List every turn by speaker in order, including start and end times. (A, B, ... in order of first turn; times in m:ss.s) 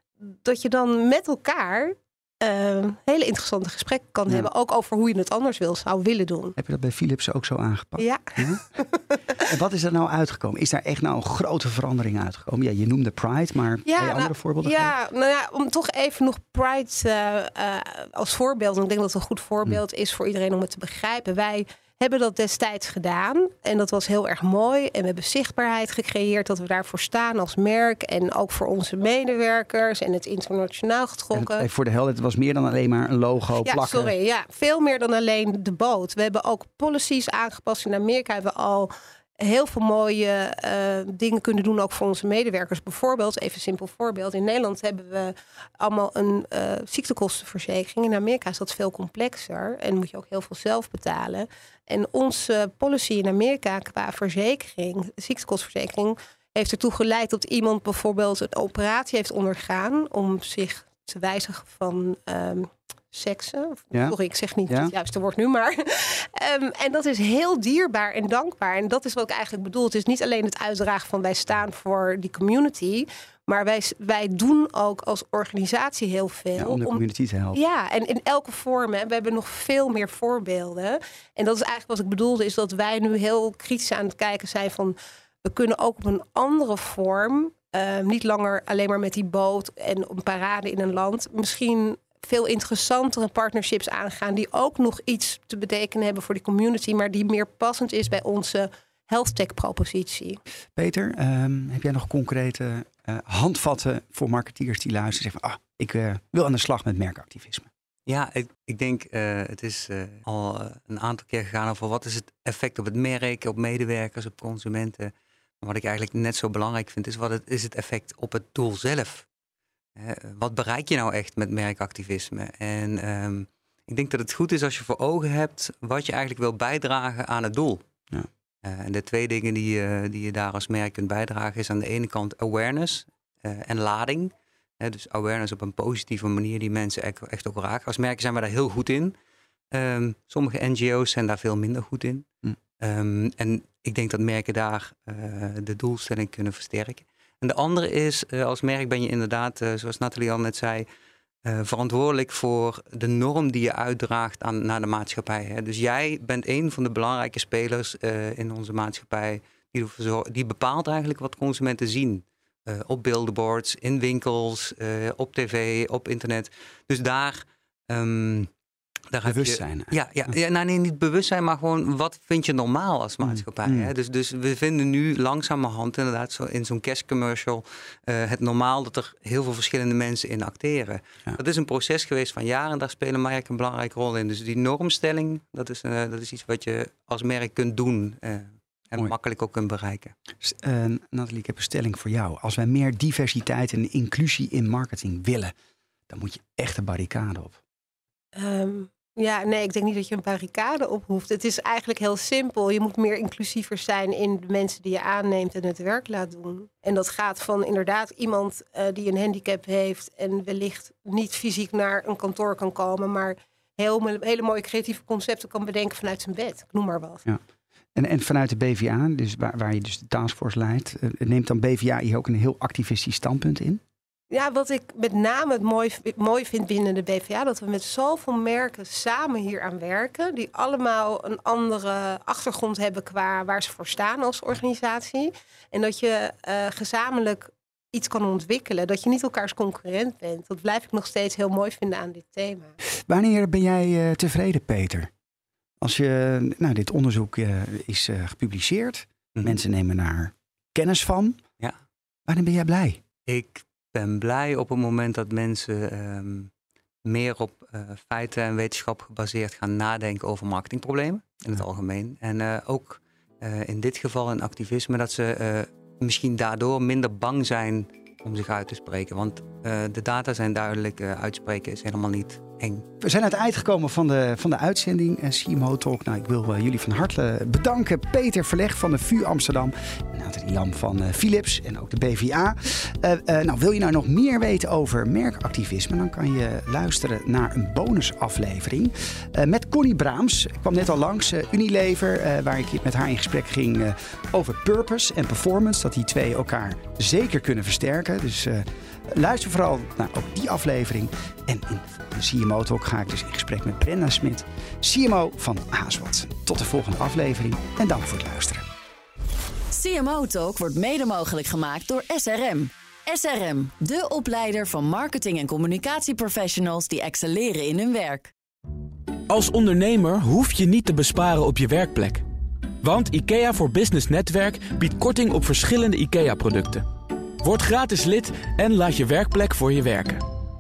0:00.2-0:06.6 A
0:06.6-0:08.6 B
0:08.0-0:09.4 A
0:09.4-0:14.9 B
0:13.8-0:31.6 A
0:31.3-0:34.1 B
0:33.6-1:17.0 A
1:04.7-1:04.9 B
1:16.6-1:17.6 B
1:17.5-1:40.4 A
1:40.8-1:47.7 B
1:48.1-1:59.2 C
2:00.0-2:07.8 C
2:08.6-2:19.1 C
2:19.7-2:22.3 C
2:22.8-2:30.8 C
2:31.4-2:48.5 C
2:49.1-3:10.1 C
2:49.2-2:50.3 B
2:53.2-2:53.9 B
3:10.4-3:15.5 B
3:16.1-3:17.6 B
3:18.3-3:37.2 A
3:37.9-3:43.8 B
3:44.3-4:02.8 A
4:03.1-4:05.1 B
4:05.8-4:11.4 B
4:12.3-4:13.0 B
4:13.3-4:16.5 C
4:17.0-4:32.8 C
4:33.0-5:08.6 B
5:09.7-5:18.3 D
5:19.3-5:22.2 E
5:22.8-5:26.8 E
5:27.4-5:30.2 E